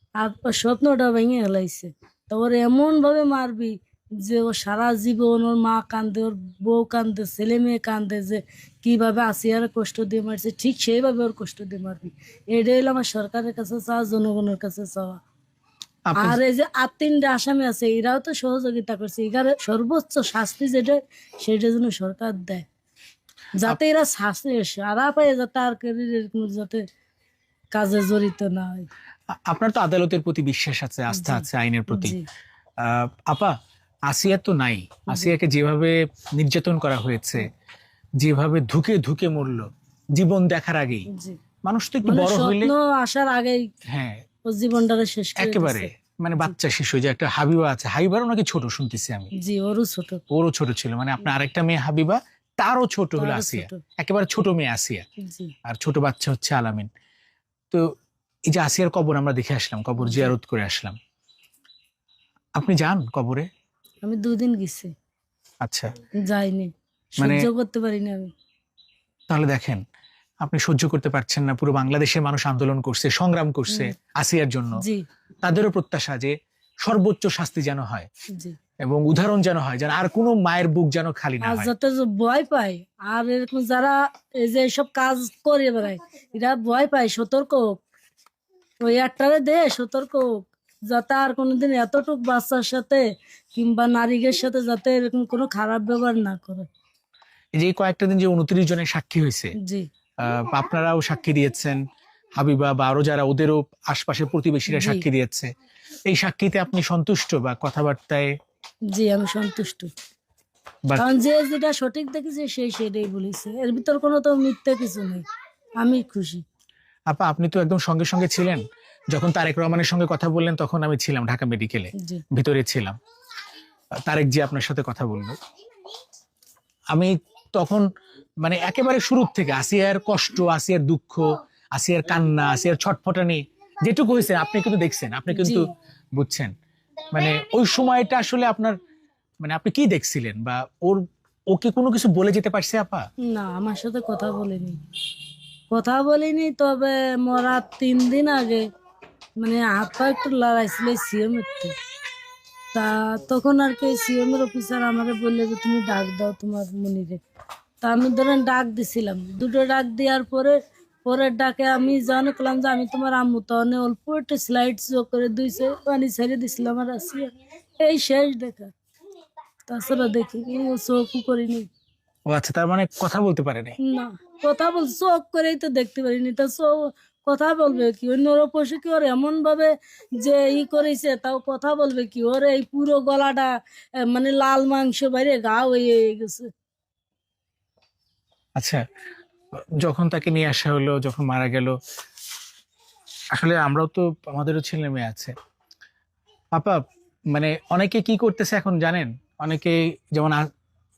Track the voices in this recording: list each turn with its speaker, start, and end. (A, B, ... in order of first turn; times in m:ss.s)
0:00.2-0:15.2 A
0:16.1-0:16.4 B
0:16.2-0:22.7 A
0:23.6-0:26.8 A
0:27.7-0:28.9 A
0:29.5-0:32.2 B
0:31.1-0:32.2 A
0:32.8-0:33.5 B
0:34.1-0:37.5 B
0:38.2-0:41.1 B
0:41.1-0:41.4 A
0:41.6-0:42.7 B
0:42.0-0:43.7 A
0:43.9-0:44.2 B
0:44.5-0:46.6 A
0:45.4-0:49.3 B
0:49.4-0:50.2 A
0:50.3-0:55.0 B
0:53.2-0:53.8 A
0:55.2-0:55.5 A
0:55.6-0:56.9 B
0:58.5-1:01.0 B
1:00.0-1:00.3 A
1:02.6-1:03.5 B
1:04.0-1:04.9 A
1:05.6-1:05.9 B
1:06.2-1:08.3 A
1:07.2-1:07.5 B
1:09.3-1:09.8 B
1:10.4-1:14.8 B
1:13.7-1:13.9 A
1:14.8-1:15.0 A
1:15.4-1:18.1 B
1:18.8-1:21.7 B
1:21.4-1:27.8 A
1:28.8-1:36.7 A
1:37.6-1:39.6 B
1:39.6-1:39.9 A
1:40.2-1:41.8 B
1:42.4-1:45.5 B
1:44.7-1:45.0 A
1:46.1-1:48.3 B
1:48.9-1:49.9 A
1:51.0-1:55.3 A
1:55.8-1:56.4 A
1:57.1-2:03.0 B
2:04.1-2:05.4 B
2:06.9-2:07.9 B
2:08.4-2:16.5 B
2:15.3-2:15.7 A
2:17.1-2:18.8 B
2:19.4-2:23.1 B
2:23.2-2:24.8 A
2:25.7-2:28.7 A
2:29.4-2:31.7 A
2:32.7-2:37.2 A
2:37.8-2:48.7 A
2:49.7-2:51.7 A
2:52.3-2:53.8 B
2:53.8-3:06.5 A
3:08.6-3:08.8 B
3:09.8-3:11.8 B
3:13.3-3:15.3 B
3:16.5-3:20.5 B